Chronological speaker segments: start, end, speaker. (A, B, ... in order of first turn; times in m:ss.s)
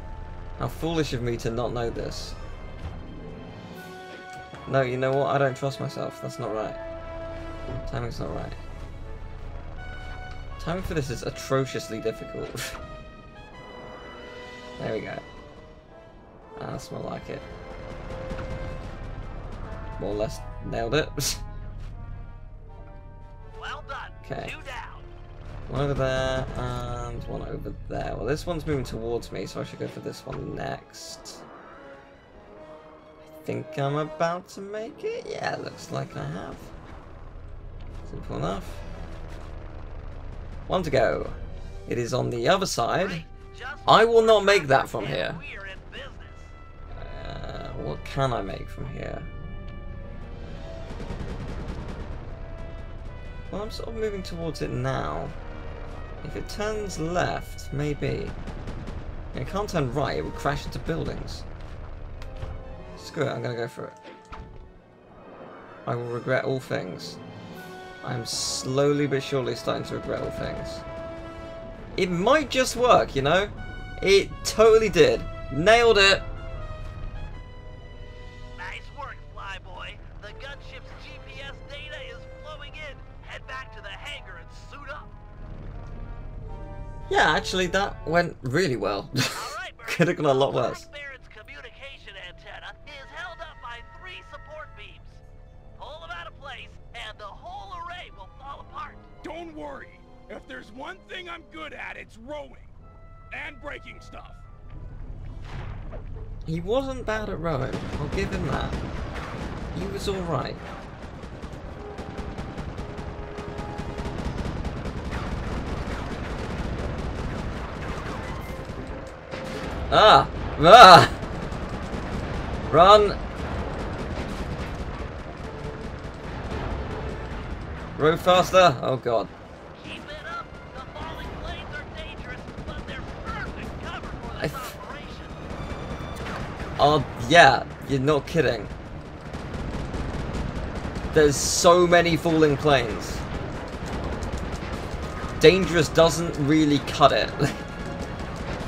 0:00.6-0:02.4 A
0:04.7-0:06.8 A
0:07.8-0:08.6 A
0:10.6-0:12.8 A
0:14.8-0:15.2 A
0:16.6-0:17.5 A
0:20.0-0:21.4 A
0:23.6-0:25.1 B
0:24.2-0:24.5 A
0:25.7-0:31.4 A
0:33.4-0:36.7 A
0:38.0-0:38.8 A
0:40.7-0:43.2 A
0:43.0-0:46.5 B
0:43.8-0:45.4 A
0:46.9-0:49.3 A
0:53.5-0:55.4 A
0:56.2-0:58.4 A
0:59.3-1:01.4 A
1:03.0-1:04.0 A
1:05.8-1:07.2 A
1:08.0-1:10.8 A
1:11.9-1:16.2 A
1:18.6-1:25.1 B
1:27.1-1:30.8 A
1:29.3-1:35.2 B
1:35.7-1:39.1 B
1:39.2-1:42.7 C
1:43.3-1:44.4 C
1:46.4-1:48.8 A
1:49.7-1:50.6 A
1:59.9-2:01.2 A
2:02.7-2:03.2 A
2:08.0-2:09.3 A
2:09.7-2:15.4 B
2:14.4-2:14.7 A
2:16.8-2:18.7 A
2:21.1-2:23.2 A
2:25.4-2:27.6 A